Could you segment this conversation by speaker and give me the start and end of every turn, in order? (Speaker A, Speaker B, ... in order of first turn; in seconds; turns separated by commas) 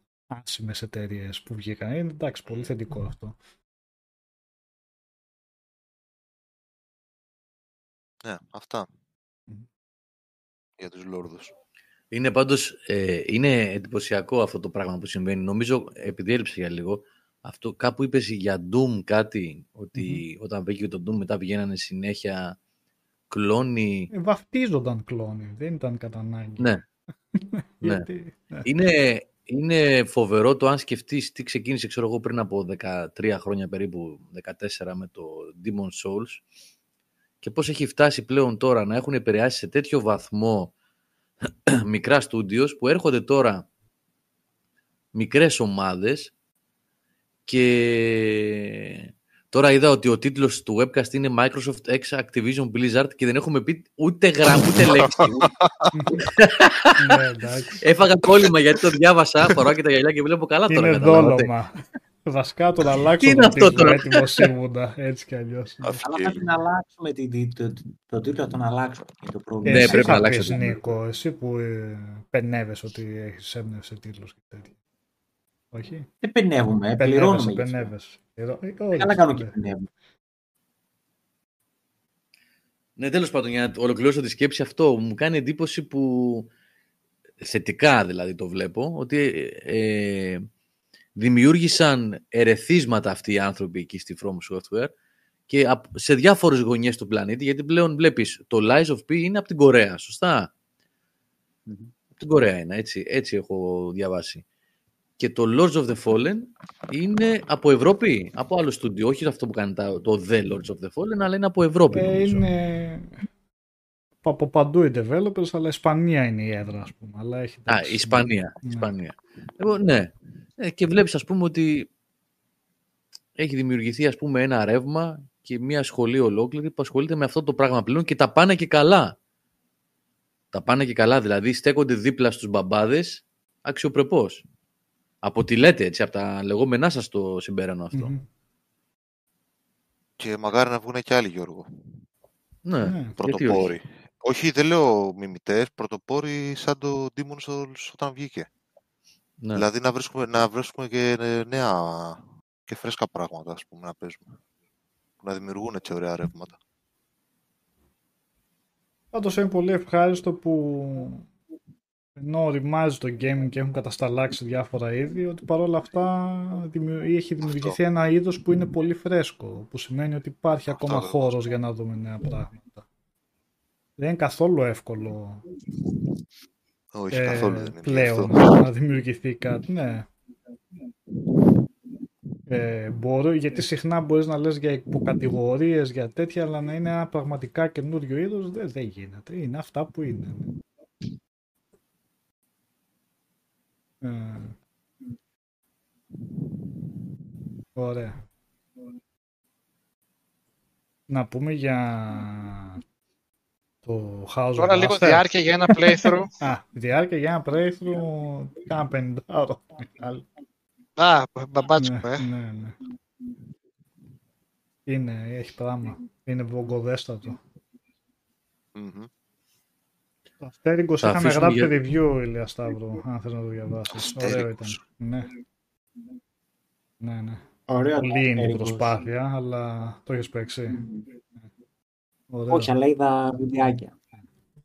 Speaker A: 0.3-3.4, Speaker B: 2.5-2.7, Speaker B: 8.2-8.9, Speaker B: 10.8-11.5, Speaker C: 12.1-22.6, Speaker A: 19.9-20.2, Speaker C: 23.3-24.1, Speaker A: 24.1-26.7, Speaker A: 27.4-28.7, Speaker C: 28.6-36.4, Speaker C: 37.4-40.7, Speaker C: 41.7-43.7, Speaker C: 45.1-46.3, Speaker C: 47.5-55.5, Speaker B: 54.6-55.9, Speaker A: 55.9-56.2, Speaker C: 56.3-57.1, Speaker A: 57.0-57.8, Speaker C: 57.8-61.5, Speaker A: 60.7-61.7, Speaker A: 62.3-66.0, Speaker C: 63.2-64.5, Speaker B: 65.8-66.4, Speaker D: 66.0-70.9, Speaker A: 69.6-74.7, Speaker C: 69.7-70.6, Speaker A: 75.7-76.1, Speaker D: 76.2-77.9, Speaker A: 77.0-79.5, Speaker D: 79.0-79.9, Speaker C: 83.0-86.5, Speaker C: 87.4-90.5, Speaker C: 91.2-94.9, Speaker C: 95.5-100.5, Speaker C: 102.2-104.4, Speaker C: 105.2-112.5, Speaker A: 111.9-113.2, Speaker A: 114.2-118.9, Speaker C: 117.7-121.9, Speaker C: 123.4-129.2, Speaker C: 130.5-134.4, Speaker C: 135.2-138.1, Speaker A: 137.9-138.2, Speaker B: 140.2-141.7, Speaker C: 142.7-143.8, Speaker A: 142.8-143.1, Speaker B: 143.1-148.5, Speaker C: 149.4-149.7, Speaker B: 149.5-154.4, Speaker B: 155.2-156.6, Speaker A: 159.1-161.3, Speaker A: 162.2-172.8, Speaker B: 167.4-167.8, Speaker B: 170.7-171.3, Speaker A: 174.0-175.4, Speaker B: 176.9-178.6, Speaker A: 177.1-180.1, Speaker A: 182.5-190.5, Speaker A: 194.0-194.6, Speaker A: 197.8-198.2, Speaker A: 201.1-202.8, Speaker A: 203.8-210.2, Speaker E: 204.6-206.3, Speaker E: 211.0-212.3, Speaker A: 211.8-212.8, Speaker A: 214.9-217.4, Speaker B: 218.8-219.1, Speaker A: 220.4-225.3, Speaker C: 221.0-221.7, Speaker B: 223.9-224.8, Speaker A: 227.0-227.4, Speaker D: 227.7-229.0, Speaker A: 228.0-230.8, Speaker A: 232.3-232.7, Speaker D: 232.5-234.0